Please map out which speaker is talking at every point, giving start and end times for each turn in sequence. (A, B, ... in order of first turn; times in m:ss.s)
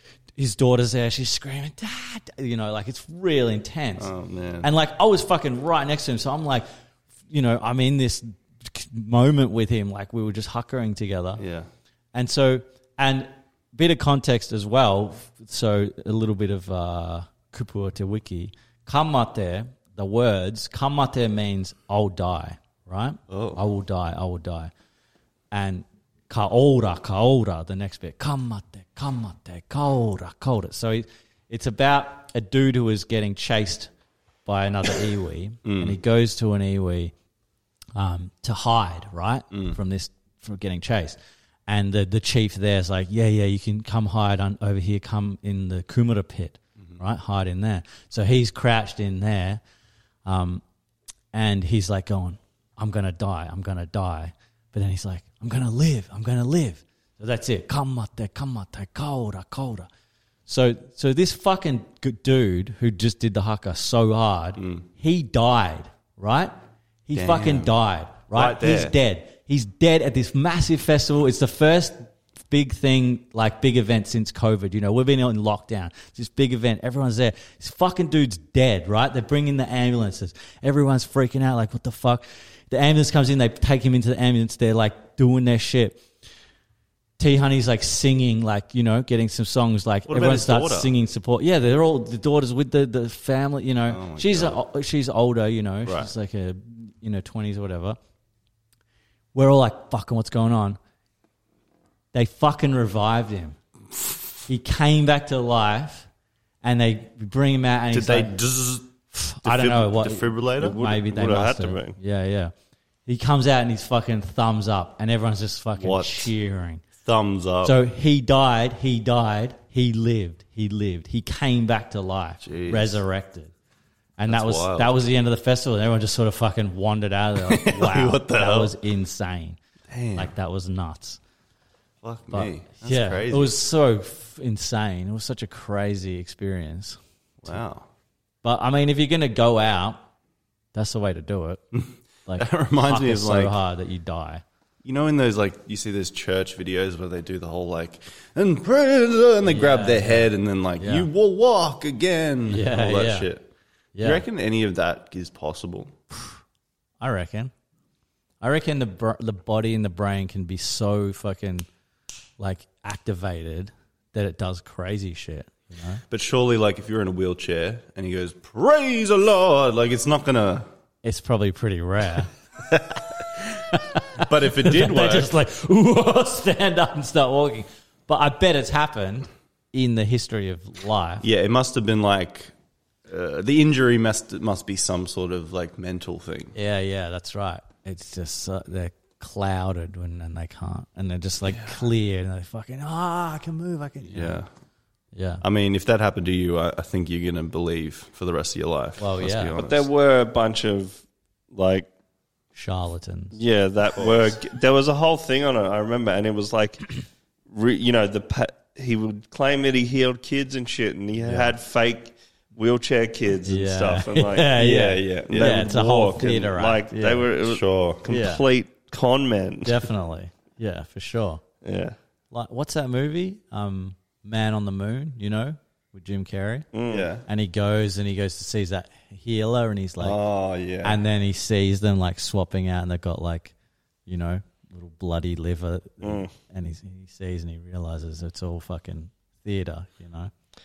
0:00.4-0:04.1 A
0:04.0-0:04.7 B
0:04.6-0:06.6 A
0:07.3-0:11.4 A
0:11.4-0:11.7 B
0:12.1-0:24.7 A
0:23.3-0:23.6 B
0:25.5-0:33.9 A
0:34.4-0:37.1 A
0:35.6-0:36.0 B
0:37.9-0:49.6 A
0:39.5-0:39.8 B
0:50.2-0:50.6 A
0:51.3-0:59.9 A
1:00.5-1:06.5 A
1:04.6-1:04.8 B
1:07.0-1:26.0 A
1:07.1-1:07.7 B
1:08.3-1:09.0 B
1:27.2-1:38.0 A
1:30.1-1:30.9 B
1:33.9-1:34.6 B
1:35.8-1:36.1 B
1:39.3-1:40.8 A
1:42.1-1:43.6 A
1:44.5-1:46.1 A
1:46.6-1:48.4 A
1:47.9-1:48.9 B
1:49.1-1:52.5 A
1:49.4-1:50.8 B
1:50.6-1:52.0 C
1:53.0-1:56.8 A
1:55.8-1:56.3 B
1:57.0-1:57.8 B
1:57.6-2:03.5 A
2:02.4-2:03.0 B
2:04.2-2:09.6 A
2:04.3-2:05.0 B
2:07.4-2:08.8 B
2:09.9-2:10.3 B
2:10.1-2:11.2 A
2:12.0-2:13.6 B
2:12.3-2:17.6 A
2:17.4-2:17.9 B
2:18.4-2:20.0 A
2:20.7-2:21.6 A
2:21.7-2:23.6 B
2:22.2-2:24.4 A
2:24.8-2:35.9 B
2:29.4-2:31.1 A
2:32.5-2:33.3 A
2:33.9-2:34.2 A
2:37.0-2:37.5 A
2:38.4-2:41.7 A
2:42.4-2:46.0 A
2:46.1-2:50.7 B
2:51.0-2:52.3 A
2:52.6-2:53.6 B
2:53.7-3:01.2 A
2:54.2-2:55.3 B
3:01.2-3:02.5 B
3:03.1-3:06.5 B
3:06.5-3:14.4 A
3:11.5-3:11.8 B
3:14.1-3:14.5 B
3:15.1-3:15.4 A
3:15.4-3:19.9 B
3:19.0-3:19.5 A
3:19.6-3:21.9 C
3:22.5-3:23.4 A
3:23.3-3:27.0 C
3:24.0-3:24.3 B
3:27.5-3:34.6 C
3:31.2-3:31.5 B
3:33.4-3:37.3 A
3:34.5-3:35.6 B
3:35.3-3:39.9 C
3:37.4-3:38.0 B
3:38.1-3:38.4 A
3:39.6-3:41.4 A
3:41.6-3:42.0 C
3:42.3-3:46.7 A
3:46.7-3:47.1 C
3:46.9-3:47.2 B
3:47.2-3:50.2 A
3:50.0-3:51.0 B
3:50.8-3:53.5 A
3:54.0-4:00.3 A
3:56.0-3:56.3 C